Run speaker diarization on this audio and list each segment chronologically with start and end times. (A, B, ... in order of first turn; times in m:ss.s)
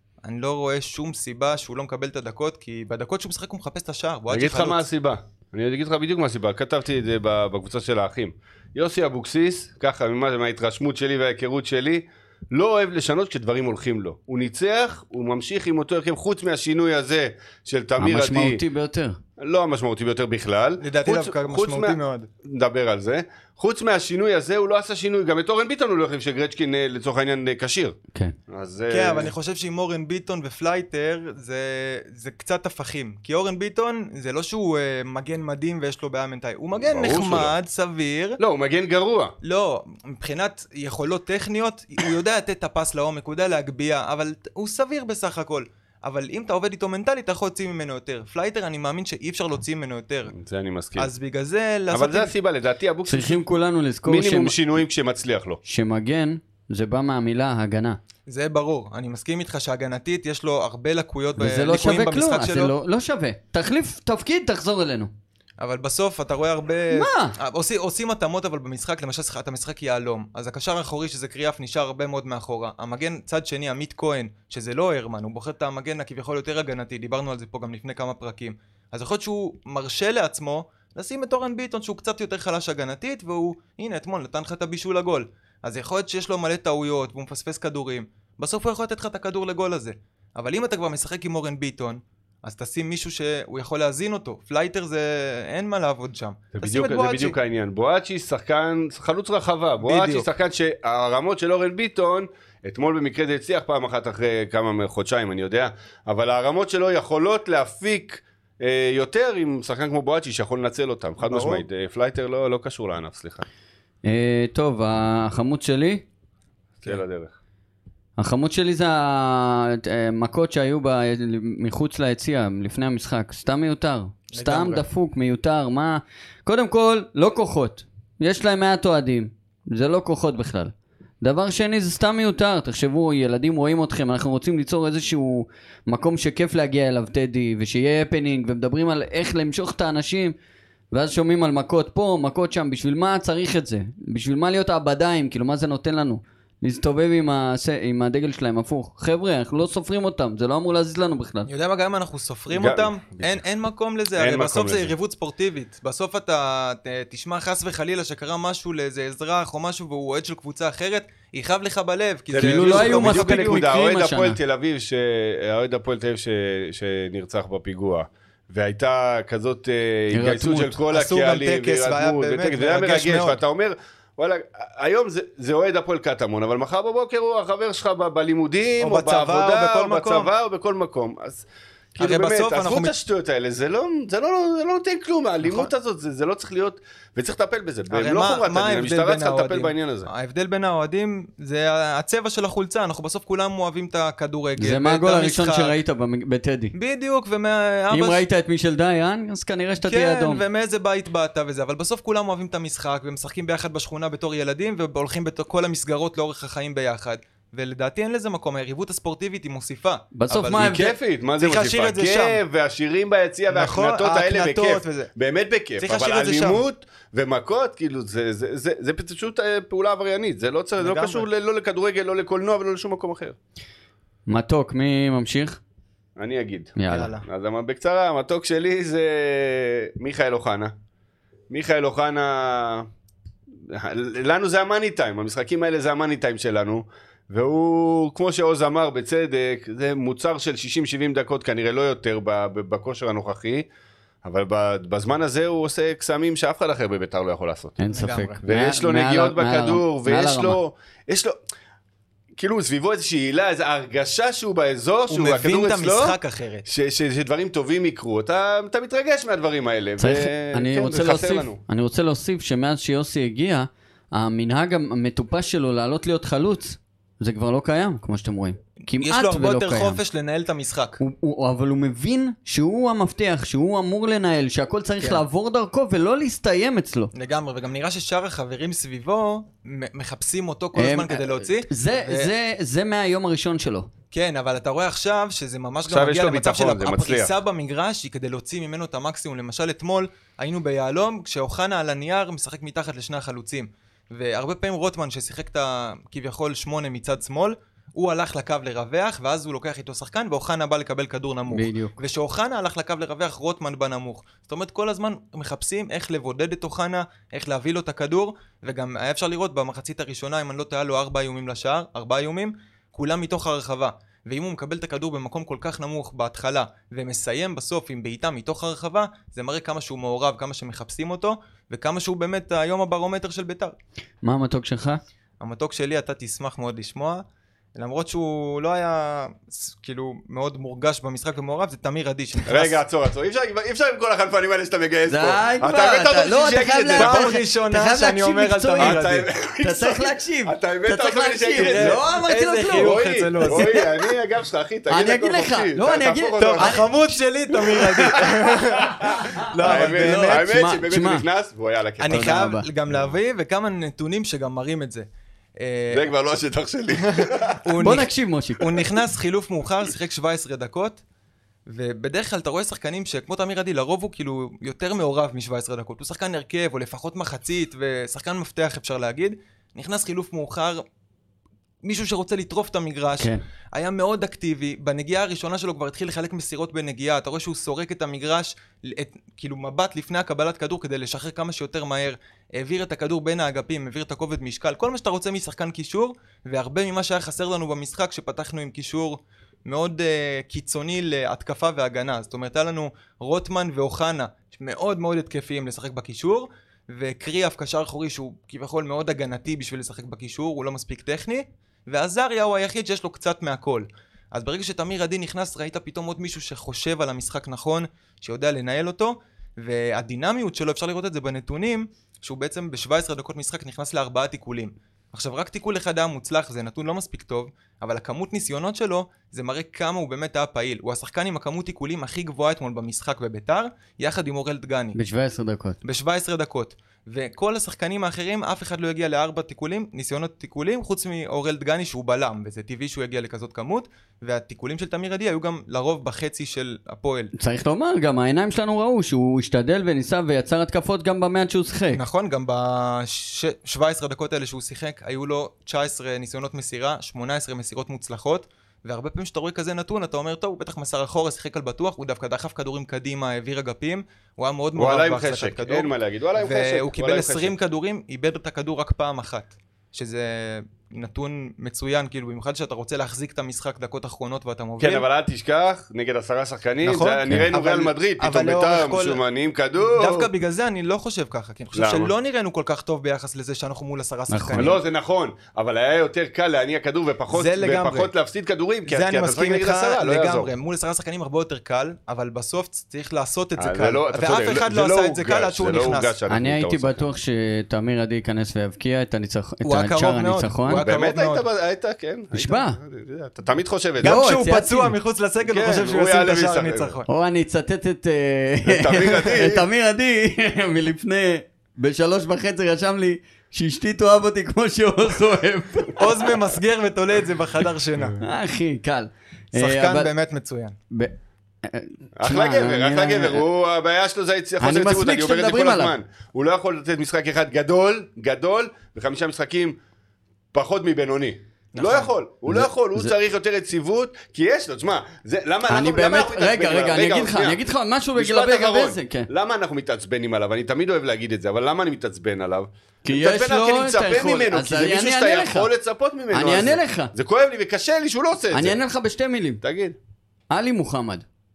0:00.2-0:04.8 A
0:04.3-0:18.6 B
0:18.0-0:19.2 C
0:19.4-0:28.0 B
0:20.8-0:22.3 A
0:28.5-0:29.3 B
0:28.9-0:38.4 A
0:36.8-0:37.5 B
0:38.4-0:39.3 B
0:39.4-0:50.3 A
0:50.3-0:51.1 B
0:51.0-0:52.3 A
0:51.9-0:53.4 B
0:53.1-0:54.6 C
0:54.1-0:55.6 B
0:55.6-0:58.0 C
0:58.3-1:02.7 A
1:01.4-1:05.1 C
1:05.6-1:37.4 A
1:06.9-1:07.4 C
1:36.6-1:53.5 B
1:39.8-1:40.3 A
1:51.2-1:51.6 A
1:54.0-1:56.0 C
1:56.8-1:57.3 B
1:58.2-2:20.4 C
2:04.3-2:04.8 A
2:20.9-2:31.5 C
2:31.5-2:43.6 A
2:32.5-2:33.4 B
2:34.2-2:34.9 B
2:42.3-3:10.1 B
2:42.4-2:44.4 C
2:50.1-2:50.8 C
2:50.9-2:53.4 A
2:58.8-3:00.3 A
3:02.0-3:02.9 A
3:05.4-3:05.7 A
3:07.9-3:15.8 A
3:14.6-3:16.8 C
3:16.8-3:18.2 A
3:17.9-3:20.4 C
3:19.8-3:30.9 A
3:30.1-3:30.9 C
3:30.5-3:43.4 B
3:31.4-3:32.4 A
3:33.5-3:35.1 A
3:35.8-3:36.6 A
3:40.8-3:41.3 A
3:44.3-3:45.6 C
3:46.2-3:50.7 B
3:46.8-3:47.1 C
3:46.9-3:47.2 A
3:51.5-3:52.9 B
3:53.7-4:03.7 B
4:04.2-4:07.8 B
4:07.8-4:10.6 C
4:07.9-4:08.4 A
4:08.4-4:11.4 B
4:12.4-4:21.6 B
4:15.1-4:16.7 A
4:20.0-4:30.0 C
4:29.0-4:31.0 A
4:31.0-4:37.1 C
4:37.1-4:42.3 A
4:40.8-4:43.9 C
4:44.1-5:23.8 A
4:45.9-4:47.3 B
5:01.5-5:02.0 C
5:24.2-5:25.0 C
5:25.4-5:27.2 A
5:27.8-5:32.8 A
5:32.5-5:37.4 B
5:35.1-5:39.0 C
5:36.9-5:39.3 A
5:38.8-5:42.0 B
5:39.6-5:43.9 C
5:41.6-5:43.8 A
5:42.8-5:46.9 B
5:44.9-5:46.9 C
5:46.4-5:50.5 A
5:47.6-5:52.4 B
5:49.0-5:51.3 C
5:52.0-5:55.1 A
5:52.1-5:52.7 C
5:55.6-5:56.1 A
5:55.9-5:57.7 B
5:57.1-6:01.0 A
5:57.8-5:58.8 C
6:01.7-6:10.8 A
6:11.8-7:05.0 A
7:05.0-7:05.8 C
7:05.8-7:17.3 A
7:17.4-7:22.0 C
7:21.9-7:45.0 A
7:34.8-7:37.5 B
7:44.8-7:50.3 B
7:46.8-7:49.2 A
7:49.8-7:54.8 A
7:51.7-7:52.1 B
7:54.3-7:54.7 C
7:54.5-8:00.5 B
7:57.3-7:58.1 A
7:58.9-8:06.1 A
8:03.6-8:07.1 B
8:06.3-8:10.8 C
8:09.6-8:11.5 A
8:10.8-8:14.2 B
8:12.3-8:12.8 C
8:14.0-8:17.1 A
8:14.0-8:14.9 C
8:15.4-8:17.0 B
8:17.1-8:26.4 C
8:18.7-8:19.7 B
8:26.0-8:28.2 A
8:28.2-8:30.1 C
8:29.6-8:30.8 A
8:30.9-8:33.4 C
8:32.2-8:39.8 B
8:34.6-8:36.0 C
8:40.5-8:47.6 B
8:41.8-8:42.1 A
8:42.5-8:43.1 C
8:45.7-8:49.3 C
8:48.2-8:58.8 B
8:53.0-8:55.7 C
8:56.3-8:57.1 C
8:58.5-8:59.6 C
8:59.6-9:00.0 B
9:00.5-9:01.2 C